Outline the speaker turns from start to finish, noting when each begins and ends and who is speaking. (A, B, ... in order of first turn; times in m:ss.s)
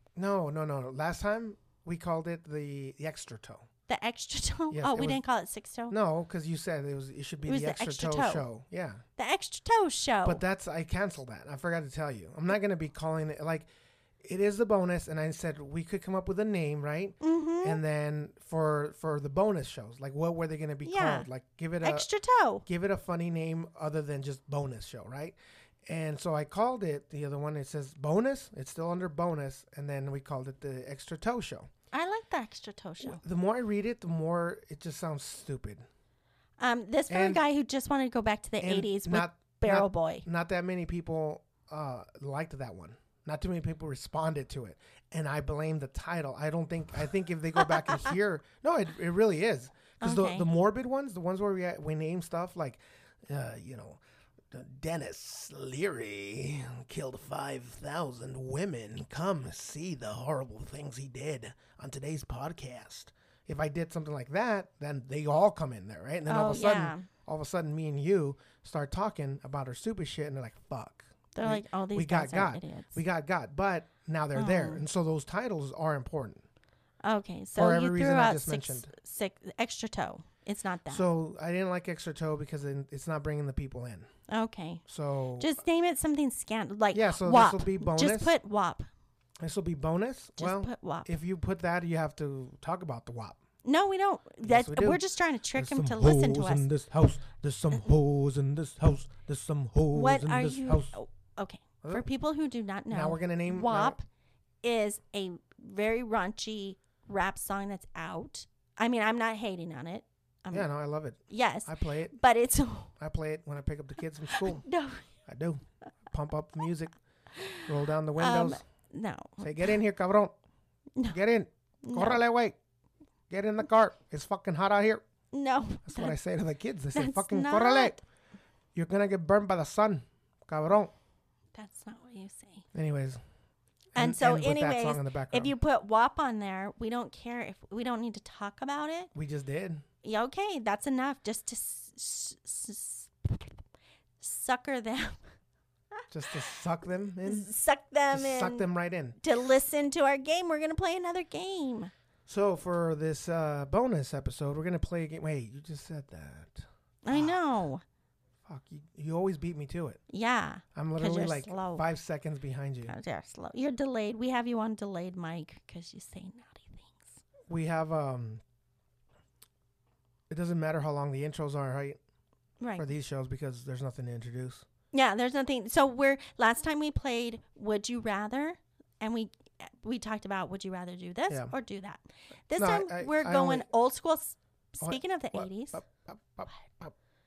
0:00.2-0:03.7 A
0:03.9-0:06.0 B
0:04.7-0:05.2 A
0:05.9-0:09.0 A
0:07.4-0:08.5 B
0:09.2-0:10.4 B
0:10.2-0:13.7 A
0:14.2-0:22.1 A
0:17.2-0:17.8 B
0:20.8-0:21.3 B
0:21.8-0:22.6 B
0:22.7-0:25.4 A
0:25.9-0:31.7 A
0:31.9-0:33.2 B
0:33.0-0:35.8 A
0:36.6-0:40.2 B
0:37.1-0:37.4 A
0:38.6-0:54.0 A
0:50.0-0:50.5 B
0:54.5-1:16.4 A
1:06.3-1:07.1 B
1:11.3-1:13.0 B
1:14.4-1:14.8 B
1:17.0-1:21.0 B
1:17.6-1:18.9 A
1:20.9-1:24.1 A
1:24.3-1:24.8 B
1:24.9-1:25.5 A
1:25.4-1:28.9 B
1:26.9-1:28.3 A
1:29.4-1:33.4 A
1:30.4-1:31.1 B
1:33.6-1:36.7 B
1:34.4-1:41.0 A
1:39.9-1:44.0 B
1:42.9-1:44.0 A
1:44.6-1:50.7 B
1:50.5-1:52.2 A
1:51.3-1:52.9 B
1:53.0-1:54.6 A
1:54.3-1:55.1 B
1:55.3-1:57.0 A
1:57.3-1:59.8 B
1:57.6-1:58.6 A
1:59.4-2:00.3 A
2:01.1-2:02.6 A
2:01.8-2:02.2 B
2:03.3-2:05.0 A
2:05.3-2:06.2 B
2:05.8-2:08.0 A
2:06.9-2:08.0 B
2:08.8-2:10.9 A
2:11.5-2:12.7 B
2:12.7-2:13.2 A
2:14.0-2:15.5 A
2:14.0-2:19.1 B
2:19.1-2:19.8 A
2:20.0-2:23.6 B
2:24.2-2:25.2 B
2:26.1-2:27.5 A
2:27.2-2:28.7 B
2:28.1-2:29.2 A
2:29.2-2:31.9 B
2:32.3-2:37.4 A
2:37.0-2:37.8 B
2:38.4-2:40.0 A
2:40.1-2:41.8 B
2:40.8-2:43.0 A
2:42.9-2:47.2 B
2:47.5-2:48.4 A
2:50.3-2:52.0 A
2:52.6-2:52.8 B
2:52.8-2:54.6 A
2:54.9-3:05.8 B
3:02.6-3:03.7 A
3:04.8-3:07.0 A